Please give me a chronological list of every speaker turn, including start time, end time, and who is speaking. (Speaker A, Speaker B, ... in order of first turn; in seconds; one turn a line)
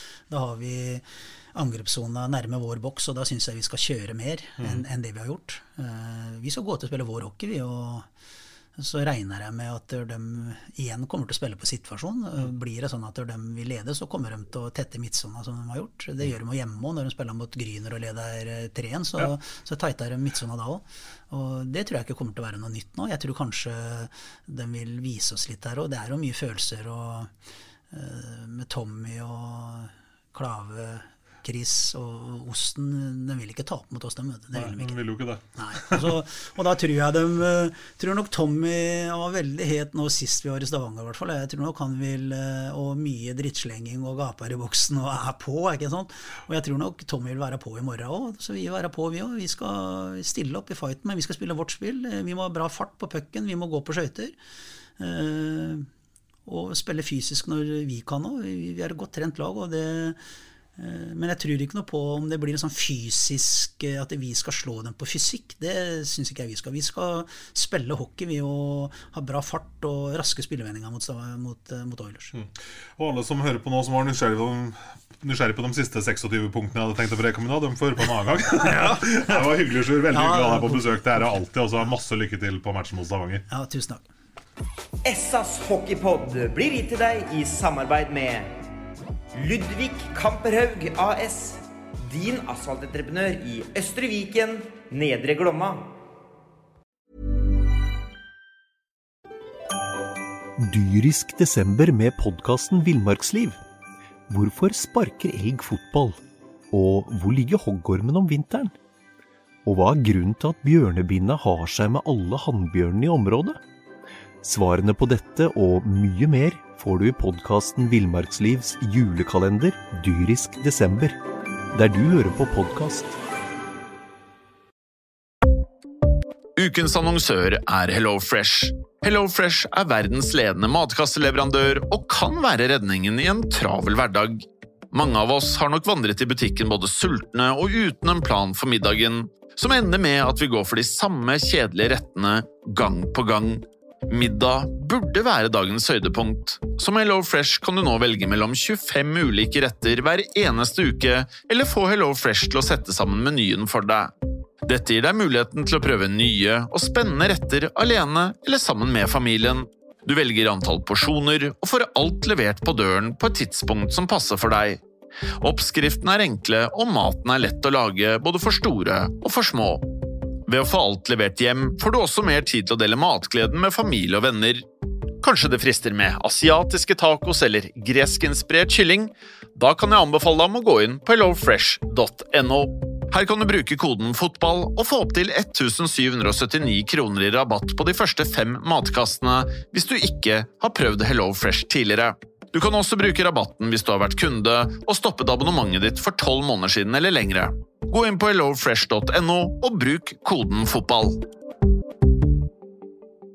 Speaker A: 0.3-8.1
Speaker A: 8.8-27.3
Speaker A: 27.9-35.0
Speaker B: 34.5-36.1
Speaker A: 35.5-54.4
Speaker A: 55.0-55.9
Speaker A: 56.5-60.2
Speaker A: 60.8-72.3
Speaker B: 72.3-83.5
Speaker A: 78.5-79.5
Speaker A: 80.1-81.3
Speaker A: 83.5-84.1
Speaker C: 85.0-88.5
Speaker C: 89.3-95.9
Speaker D: 100.6-103.6
Speaker D: 104.3-106.2
Speaker D: 106.7-108.7
Speaker D: 109.6-113.6
Speaker D: 114.4-121.2
Speaker D: 121.7-123.2
Speaker E: 126.6-154.1
Speaker E: 154.6-164.8
Speaker E: 165.4-169.9
Speaker E: 170.5-174.6
Speaker E: 175.2-201.2